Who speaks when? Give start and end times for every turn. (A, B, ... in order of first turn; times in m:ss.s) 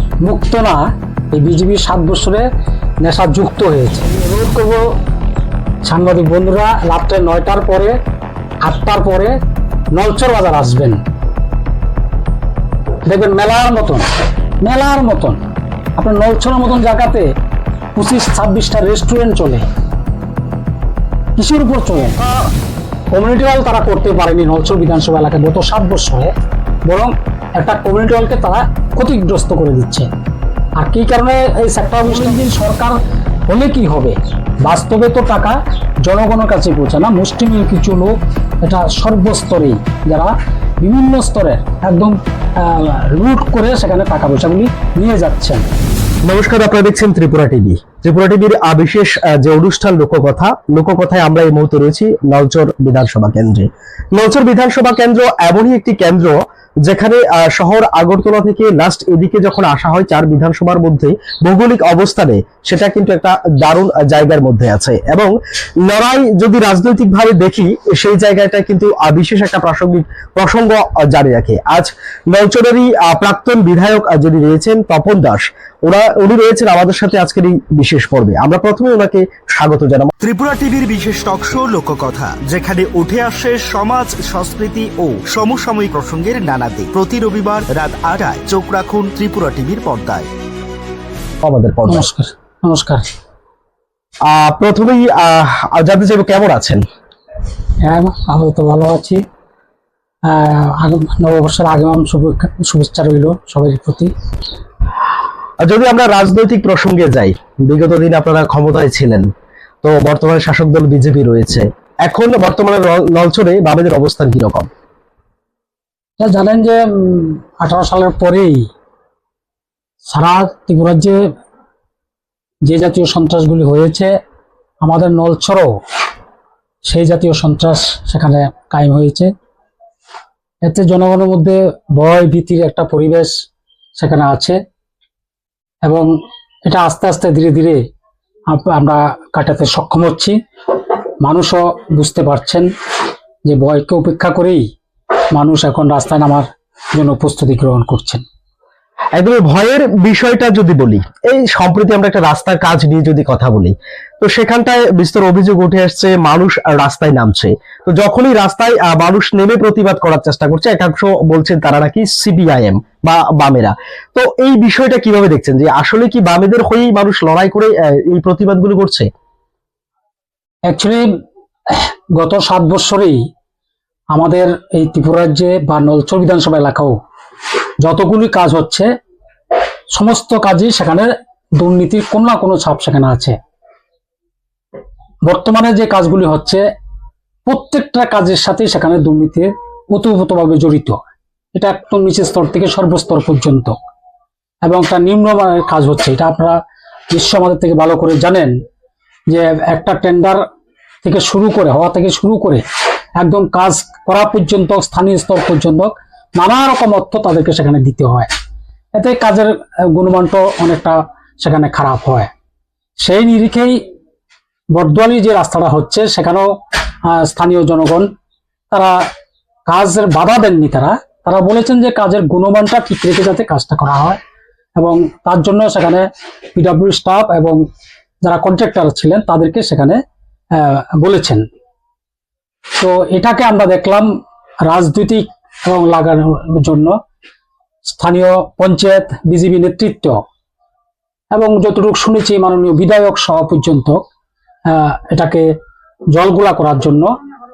0:00.2-0:02.5 A
0:03.0-0:05.0 A
0:05.8-0:08.0 A
0:08.6-0:09.4 A
0:09.9-0:11.0 A
0:13.0-0:14.0 A
0:14.6-0:15.4 A
0:16.0-0:17.3 A
0:18.0-0:19.6 A
0:21.4-0:22.5 A
0:23.1-0:26.3 A
0:26.9-0:30.1 A
0:30.8-0:45.6 A
0:46.2-1:05.3 B
1:05.8-1:20.1 B
1:20.2-1:30.3 C
1:31.4-1:32.1 B
1:31.9-1:33.0 A
1:34.2-1:36.8 B
1:37.8-1:39.2 A
1:40.2-1:44.1 A
1:45.6-1:49.3 B
1:49.8-1:54.7 B
1:56.2-1:58.7 A
2:00.1-2:01.3 A
2:02.6-2:04.1 A
2:04.8-2:05.8 A
2:06.9-2:09.3 A
2:10.6-2:13.3 A
2:14.0-2:14.6 A
2:15.8-2:16.1 A
2:16.6-2:17.8 A
2:18.5-2:20.4 A
2:21.2-2:22.7 A
2:23.4-2:24.7 A
2:25.3-2:28.2 A
2:29.1-2:49.1 B
2:50.7-2:51.1 A
2:51.7-2:53.2 A
2:54.1-2:57.0 A
2:57.8-2:58.9 A
2:59.9-3:03.4 A
3:05.2-3:06.6 A
3:07.4-3:11.0 A
3:11.5-3:13.8 A
3:14.6-3:16.6 A
3:17.1-3:18.5 A
3:19.3-3:20.4 A
3:21.0-3:22.6 A
3:23.2-3:28.3 A
3:29.0-3:32.3 A
3:33.0-3:33.8 A
3:34.7-3:36.5 A
3:37.1-3:38.1 A
3:38.7-3:39.0 A
3:39.7-3:44.2 A
3:44.8-3:47.6 A
3:48.2-3:50.0 A
3:50.5-3:51.4 A
3:52.8-3:54.1 A
3:54.6-3:57.0 A
3:57.9-4:00.2 A
4:01.3-4:04.0 A
4:04.7-4:05.5 A
4:06.1-4:07.1 A